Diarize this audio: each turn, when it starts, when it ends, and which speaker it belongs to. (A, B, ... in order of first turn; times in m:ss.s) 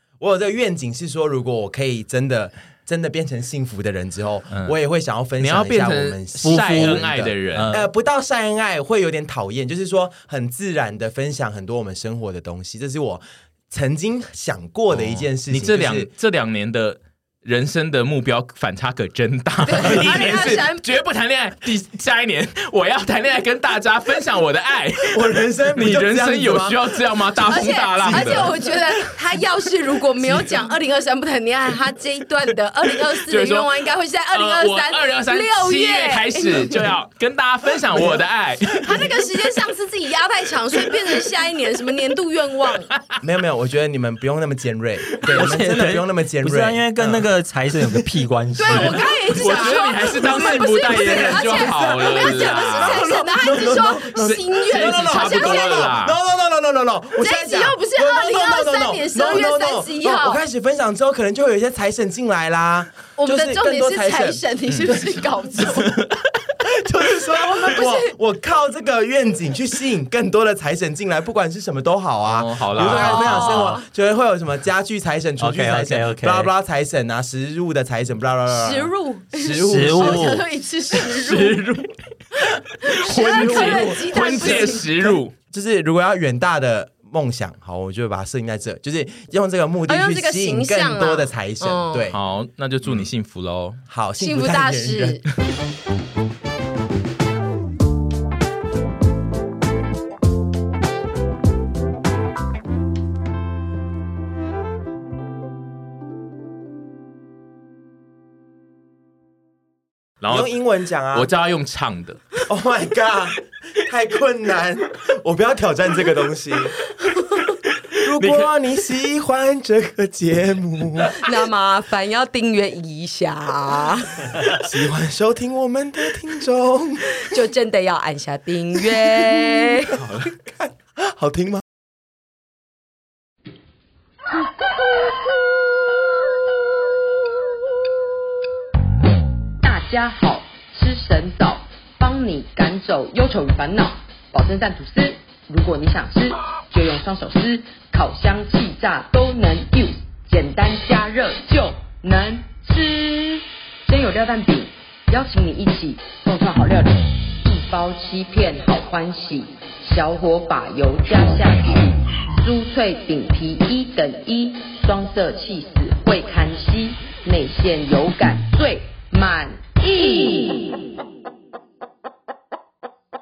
0:00.2-0:16.1 A
0:05.4-0:07.7 B
0:06.4-0:07.9 C
0:14.9-0:28.6 B
0:19.6-0:20.9 D
0:19.9-0:20.4 A
0:25.0-0:29.4 A
0:27.4-0:36.9 D
0:30.2-0:30.7 A
0:33.1-0:39.2 B
0:37.9-0:38.2 A
0:38.8-0:42.9 D
0:43.2-0:47.2 A
0:45.3-0:49.1 C
0:47.8-0:48.1 A
0:48.6-0:55.9 D
0:48.7-0:53.0 B
0:48.8-1:06.0 A
0:54.2-0:56.2 B
0:57.2-1:00.4 D
1:03.2-1:06.0 D
1:04.7-1:05.0 B
1:06.6-1:20.2 A
1:07.4-1:08.1 D
1:12.2-1:13.7 B
1:12.8-1:13.8 D
1:15.4-1:16.5 C
1:18.5-1:21.8 D
1:19.5-1:20.4 C
1:19.6-1:20.3 B
1:21.0-1:21.7 B
1:21.5-1:21.8 A
1:22.8-1:24.9 D
1:22.9-1:32.2 A
1:23.0-1:25.3 B
1:29.9-1:32.1 D
1:32.1-1:33.8 B
1:33.9-1:35.2 A
1:34.2-1:35.2 D
1:50.2-1:50.5 B
1:50.3-1:51.3 A
1:51.1-1:52.4 B
1:52.5-1:56.8 A
1:58.0-2:01.2 A
1:58.2-1:58.5 B
2:01.1-2:04.3 D
2:04.4-2:07.3 A
2:07.2-2:10.0 D
2:10.0-2:11.6 A
2:19.6-2:50.9 E